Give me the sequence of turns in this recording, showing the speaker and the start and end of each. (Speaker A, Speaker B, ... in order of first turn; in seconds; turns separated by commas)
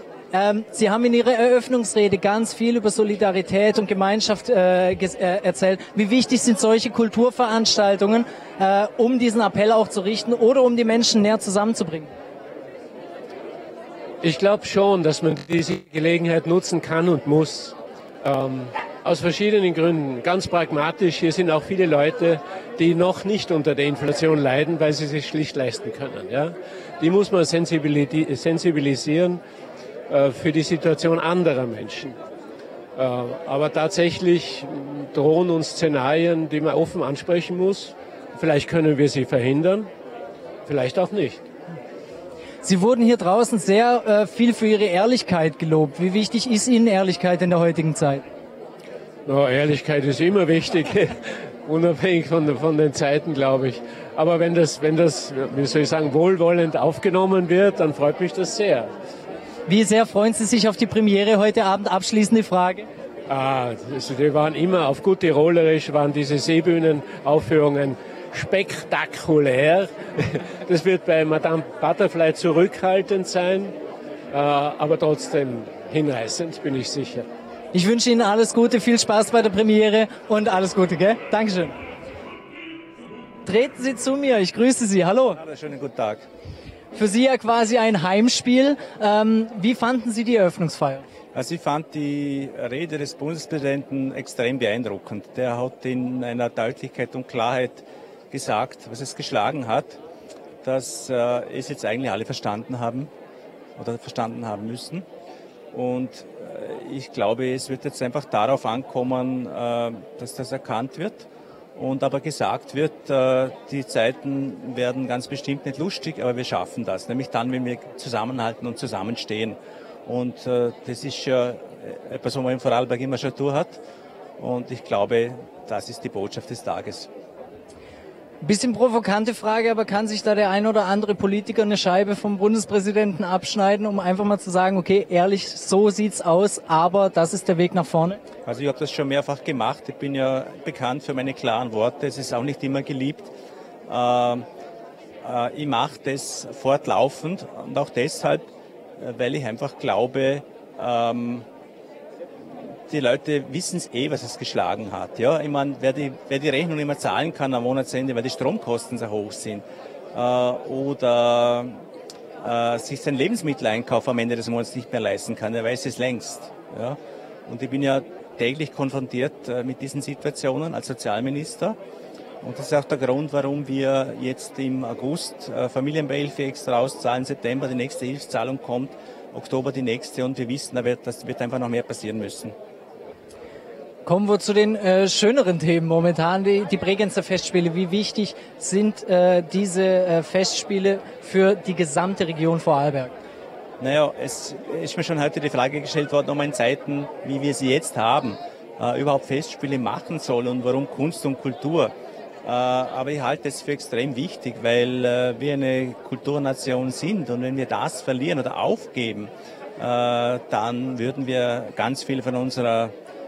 Speaker A: 0.3-12.1, Speaker B: 14.2-29.4, Speaker B: 30.1-32.2, Speaker B: 33.0-39.9, Speaker B: 40.7-41.4, Speaker A: 42.6-48.2, Speaker B: 49.2-58.9, Speaker A: 59.7-62.9, Speaker B: 63.3-73.8, Speaker B: 74.3-77.3, Speaker A: 77.7-81.8, Speaker A: 83.5-85.4, Speaker C: 85.3-86.3, Speaker A: 86.9-91.0, Speaker C: 91.3-100.0, Speaker C: 100.6-103.1, Speaker C: 103.8-105.1, Speaker C: 105.7-123.8, Speaker C: 124.4-127.1, Speaker A: 128.4-138.2, Speaker C: 138.4-143.3, Speaker C: 143.9-144.5, Speaker C: 145.2-151.5, Speaker C: 152.9-161.8, Speaker C: 162.4-171.8, Speaker C: 172.4-182.6, Speaker A: 184.1-193.1, Speaker C: 193.8-201.9, Speaker C: 202.4-212.9